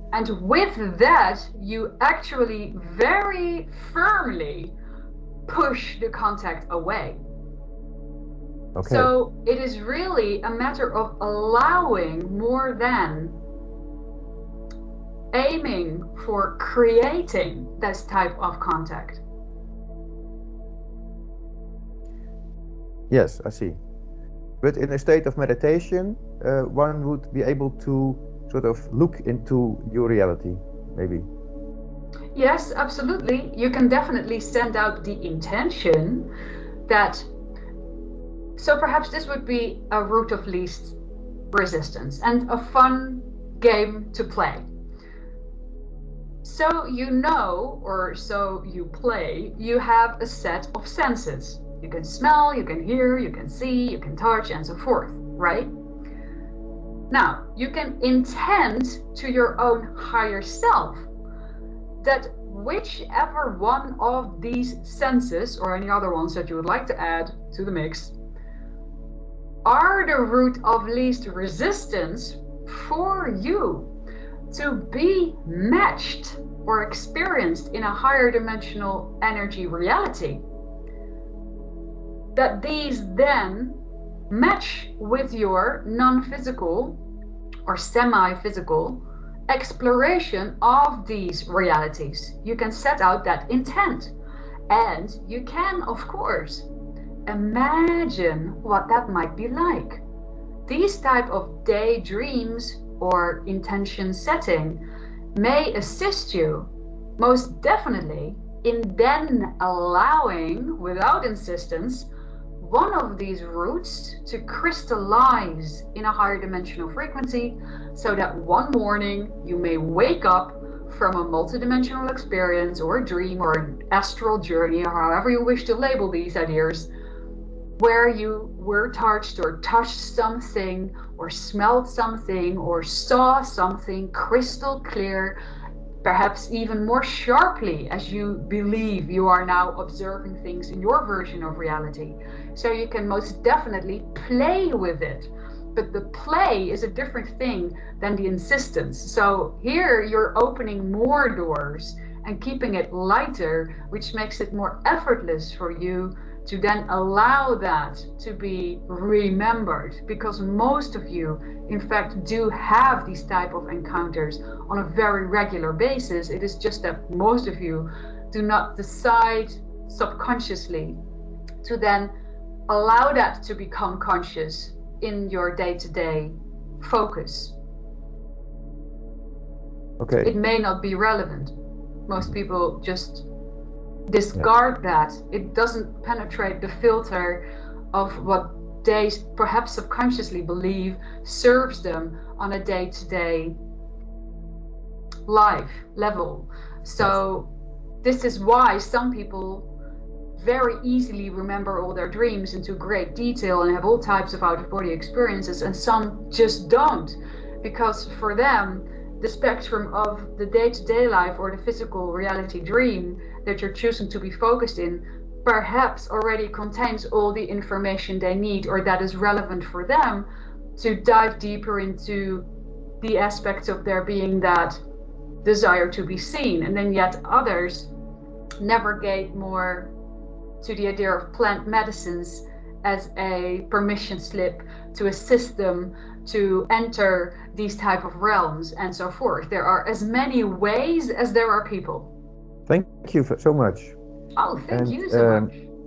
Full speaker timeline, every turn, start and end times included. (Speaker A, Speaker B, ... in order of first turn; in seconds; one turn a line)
Speaker A: 0.1-4.7
Speaker A: 5.5-7.2
Speaker B: 8.7-9.1
Speaker A: 8.8-13.4
Speaker A: 15.3-19.2
Speaker B: 23.1-23.8
Speaker B: 24.6-31.2
Speaker A: 32.3-36.3
Speaker A: 36.9-37.3
Speaker A: 38.6-41.0
Speaker A: 41.5-44.7
Speaker A: 46.4-55.7
Speaker A: 57.1-61.1
Speaker A: 62.0-68.1
Speaker A: 69.6-73.9
Speaker A: 74.5-80.4
Speaker A: 82.3-87.0
Speaker A: 87.7-94.1
Speaker A: 94.7-96.7
Speaker A: 97.2-100.0
Speaker A: 100.7-104.8
Speaker A: 105.3-126.9
Speaker A: 127.8-135.4
Speaker A: 136.0-171.0
Speaker A: 171.6-172.1
Speaker A: 172.7-177.5
Speaker B: 180.0-180.3
Speaker A: 180.2-181.5
Speaker A: 182.1-183.2
Speaker A: 184.1-193.5
Speaker A: 195.3-197.5
Speaker A: 198.0-199.7
Speaker A: 200.4-222.5
Speaker A: 223.0-224.8
Speaker A: 225.4-227.9
Speaker A: 228.6-229.9
Speaker A: 230.6-242.1
Speaker B: 242.7-243.9
Speaker A: 244.3-245.5
Speaker B: 244.7-245.5